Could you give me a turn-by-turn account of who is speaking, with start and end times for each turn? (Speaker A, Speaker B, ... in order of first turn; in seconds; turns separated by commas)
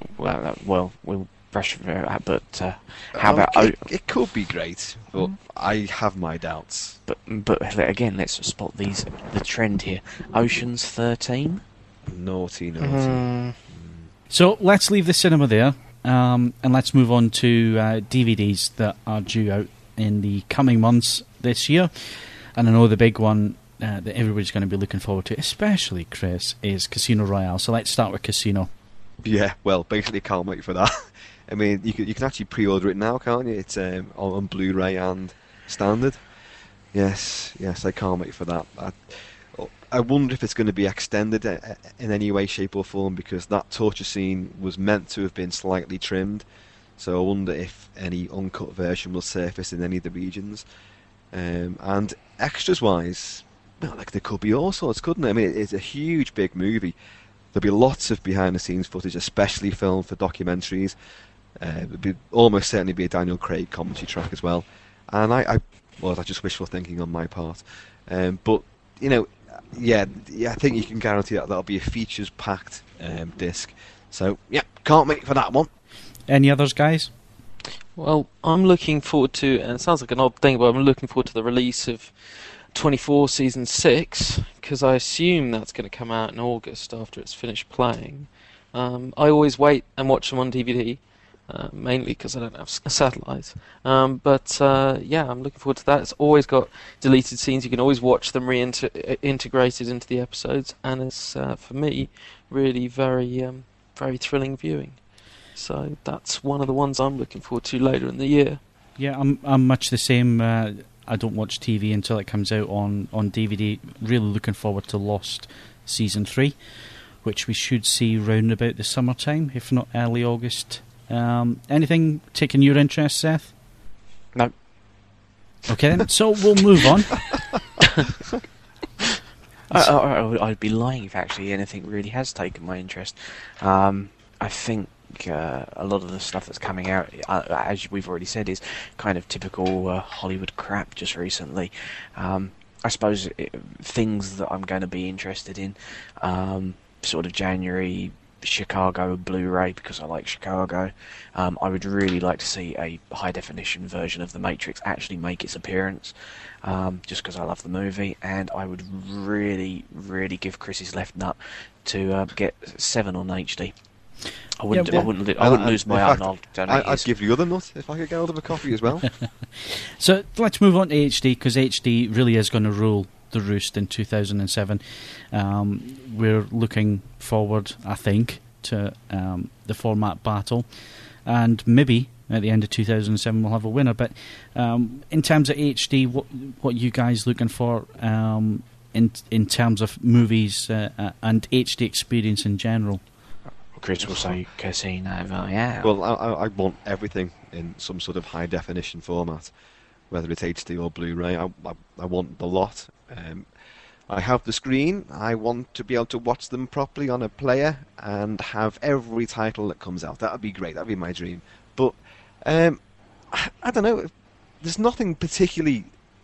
Speaker A: 0.2-3.8, Speaker B: 3.1-7.0, Speaker A: 7.1-11.6, Speaker B: 12.1-14.1, Speaker C: 12.8-13.6, Speaker D: 14.3-28.7, Speaker B: 29.2-30.9, Speaker B: 31.5-36.2, Speaker B: 36.9-46.5, Speaker B: 47.0-50.7, Speaker B: 51.3-57.0, Speaker B: 57.5-61.0, Speaker B: 61.6-75.7, Speaker D: 76.3-77.1, Speaker C: 78.0-105.0, Speaker C: 105.5-108.6, Speaker D: 109.0-116.6, Speaker D: 117.2-123.5, Speaker D: 125.7-127.2, Speaker A: 129.7-163.7, Speaker A: 164.6-167.1, Speaker D: 164.7-165.1, Speaker B: 164.9-169.1, Speaker D: 169.6-180.7, Speaker D: 181.2-193.0, Speaker A: 193.8-195.9, Speaker B: 194.0-194.4, Speaker B: 195.8-199.5, Speaker B: 200.1-203.5, Speaker B: 204.1-212.8, Speaker B: 213.3-215.9